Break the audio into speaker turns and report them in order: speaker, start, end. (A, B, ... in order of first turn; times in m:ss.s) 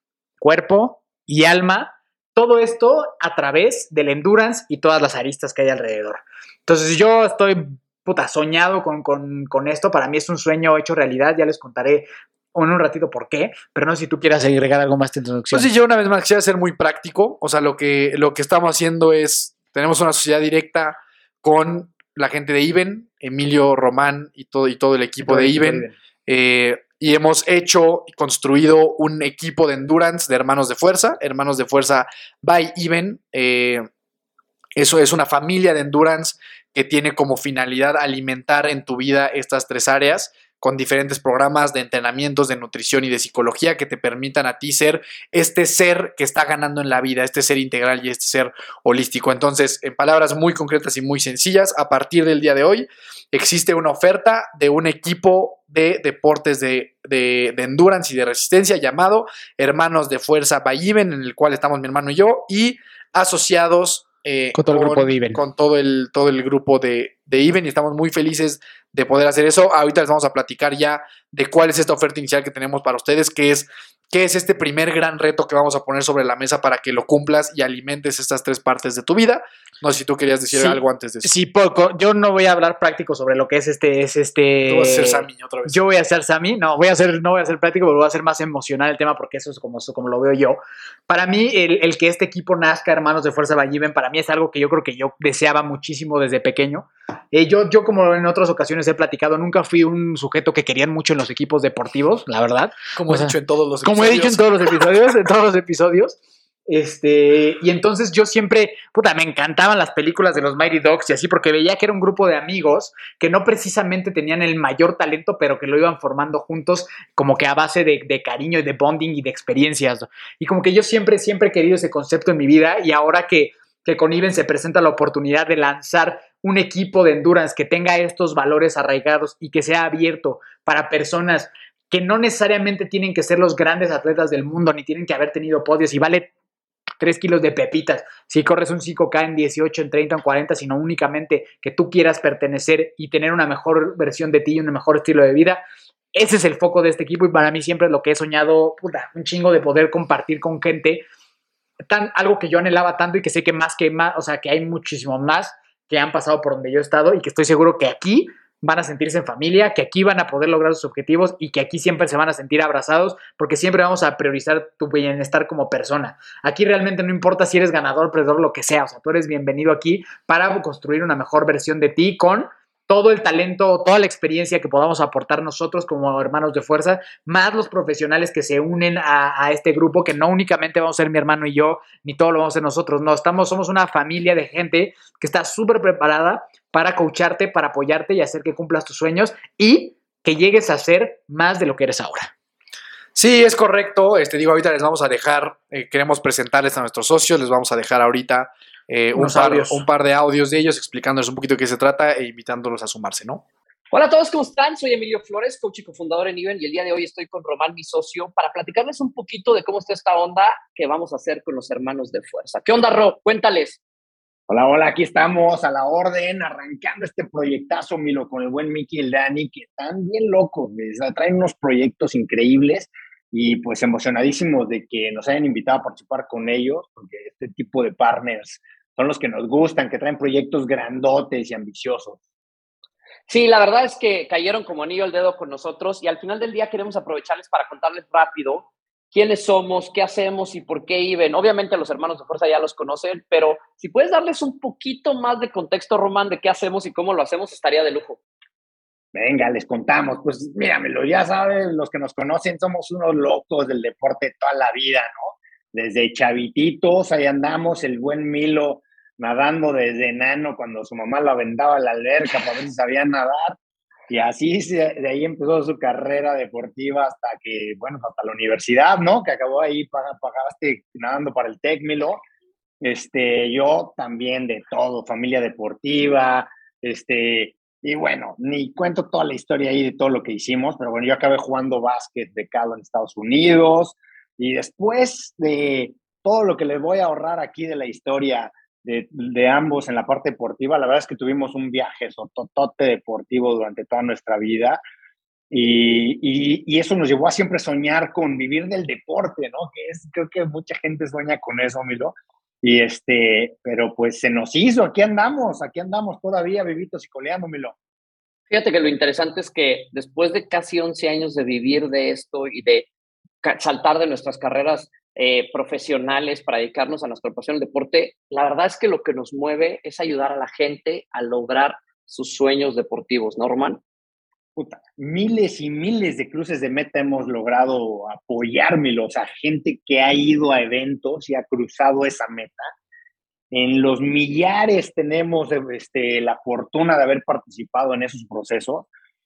0:00.4-0:15.7 A
0:15.5-0:33.9 B
0:25.2-0:25.9 A
0:34.8-1:21.3 B
1:04.6-1:05.4 A
1:20.5-2:16.3 A
1:24.7-1:25.8 B
1:43.0-1:44.5 B
2:17.0-2:25.6 A
2:26.1-2:31.1 A
2:31.9-3:12.3 A
3:13.2-3:23.4 B
3:19.2-3:19.8 A
3:23.9-3:33.8 C
3:34.5-3:52.2 D
3:53.3-4:08.2 C
4:09.1-4:23.6 D
4:24.1-4:32.2 D
4:32.8-4:54.8 D
4:55.5-5:07.8 D
5:08.5-5:12.9 C
5:13.4-5:23.8 C
5:24.6-5:32.7 D
5:33.5-5:38.9 D